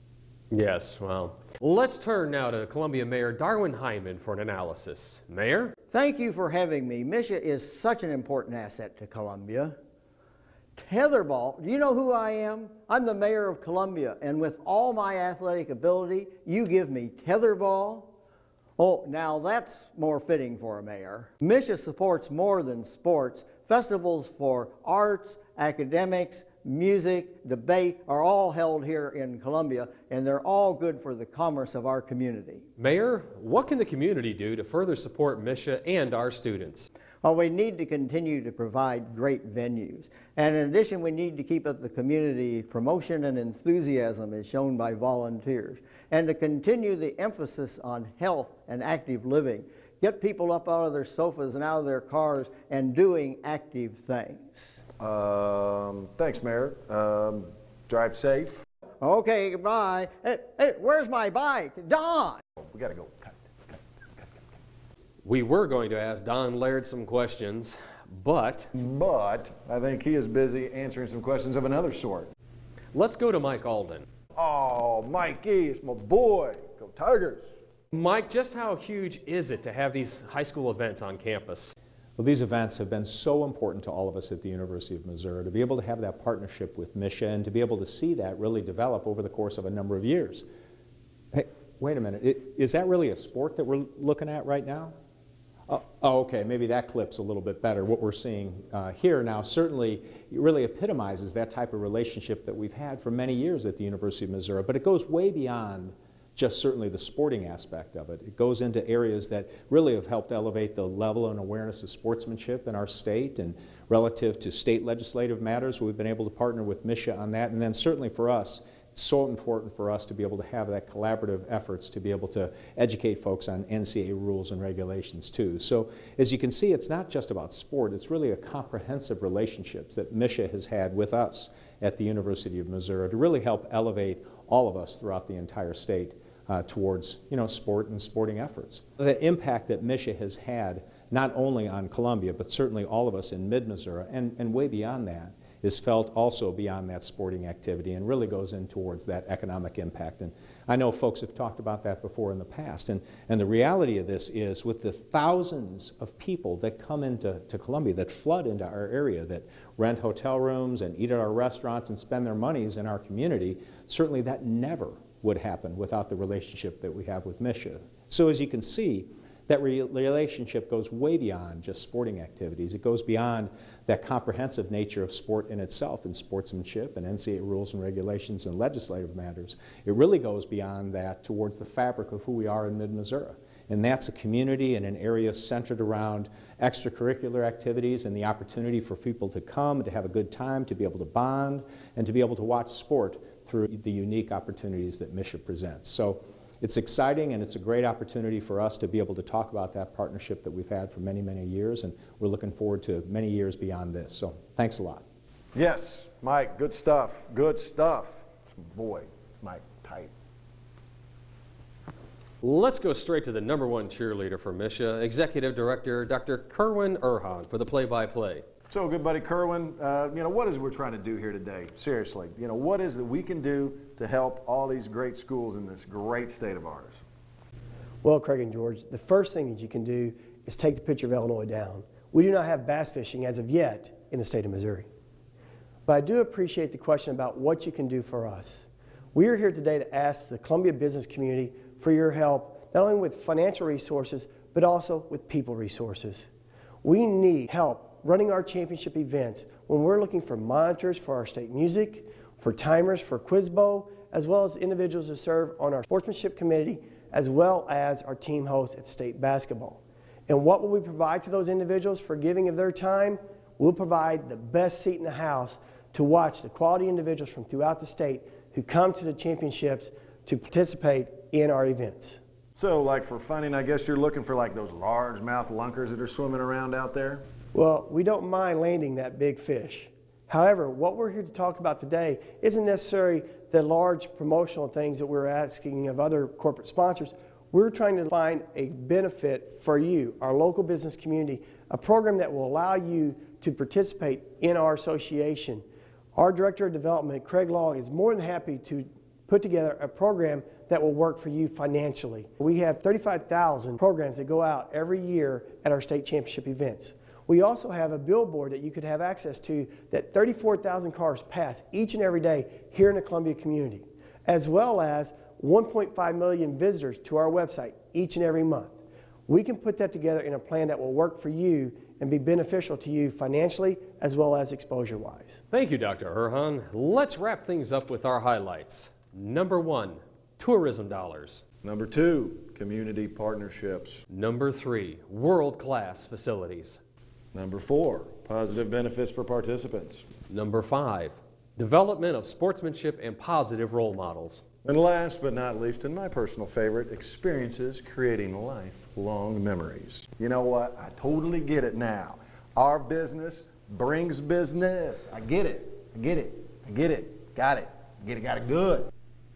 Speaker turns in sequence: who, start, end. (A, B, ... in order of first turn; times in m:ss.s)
0:00.5-0:05.7 A
0:05.9-0:09.8 B
0:10.8-0:18.1 B
0:18.8-0:32.6 B
0:32.8-0:36.9 A
0:37.2-0:54.8 B
0:55.0-0:58.6 C
0:59.0-1:02.4 B
1:02.6-1:04.4 C
1:05.2-1:08.7 A
1:08.7-1:12.3 C
1:12.9-1:14.0 A
1:14.4-1:17.4 C
1:17.9-1:21.7 A
1:22.2-1:30.4 D
1:31.3-1:34.9 D
1:35.7-3:25.0 D
3:25.5-3:30.1 C
3:32.4-3:38.4 A
3:38.7-3:47.0 C
3:48.0-3:54.9 E
3:55.9-4:06.3 E
4:06.8-4:32.2 E
4:32.6-4:37.2 C
4:37.5-4:55.6 E
4:56.1-5:25.4 E
5:25.5-5:31.4 A
5:31.6-5:34.0 C
5:34.1-5:36.8 A
5:37.3-5:40.0 C
5:40.3-5:44.4 A
5:44.6-5:58.9 C